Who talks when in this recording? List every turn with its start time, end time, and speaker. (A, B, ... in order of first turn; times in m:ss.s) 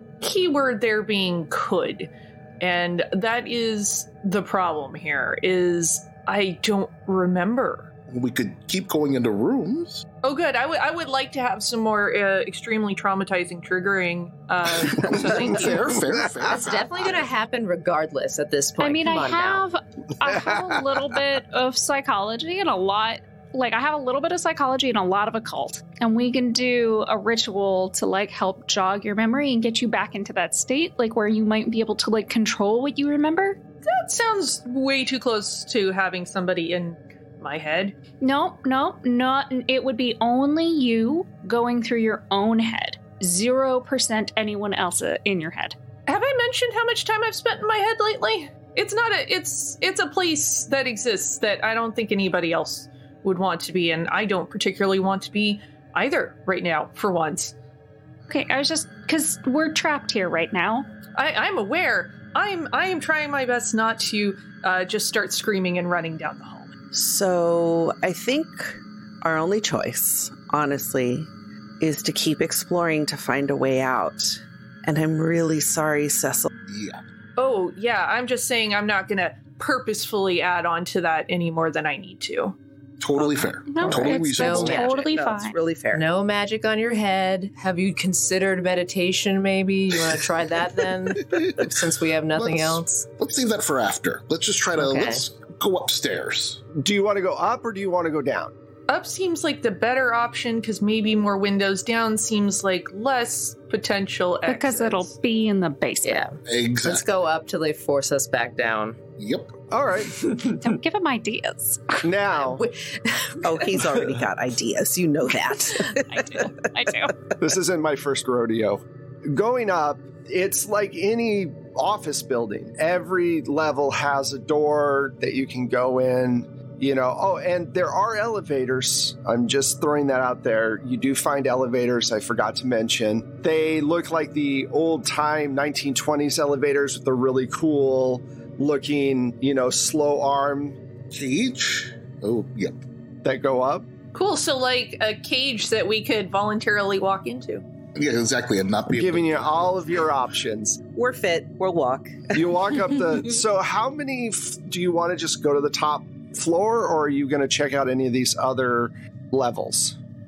0:00.2-0:07.9 A
0:08.1-0:10.0 B
0:10.2-0:15.9 A
0:14.9-0:17.3 B
0:16.4-0:19.6 C
0:18.8-0:33.6 D
0:20.2-0:21.0 E
0:33.8-0:38.0 A
0:38.2-0:45.8 D
0:46.1-0:57.5 A
0:58.3-1:00.9 D
1:01.1-1:06.7 A
1:06.9-1:11.3 F
1:11.8-1:16.5 F
1:16.7-1:17.0 B
1:17.4-1:22.6 A
1:23.0-1:24.8 B
1:23.6-1:25.6 D
1:23.8-1:24.9 C
1:24.4-1:26.0 F
1:25.9-1:33.0 C
1:31.3-1:31.7 B
1:32.3-1:36.6 B
1:34.8-1:35.2 C
1:36.8-1:38.5 E
1:38.9-1:45.1 A
1:44.5-1:46.2 D
1:46.0-1:49.0 C
1:46.4-1:47.0 B
1:49.2-1:49.5 B
1:49.7-1:50.1 E
1:50.0-1:50.7 C
1:50.6-1:52.0 D
1:52.0-1:52.6 E
1:52.4-1:53.8 C
1:53.4-1:56.5 F
1:56.1-1:57.2 D
1:57.4-2:20.8 E
2:21.1-2:22.8 B
2:23.2-2:23.9 E
2:24.1-2:27.6 A
2:27.9-2:30.1 B
2:28.9-2:30.8 E
2:30.9-2:32.5 F
2:32.3-2:40.0 E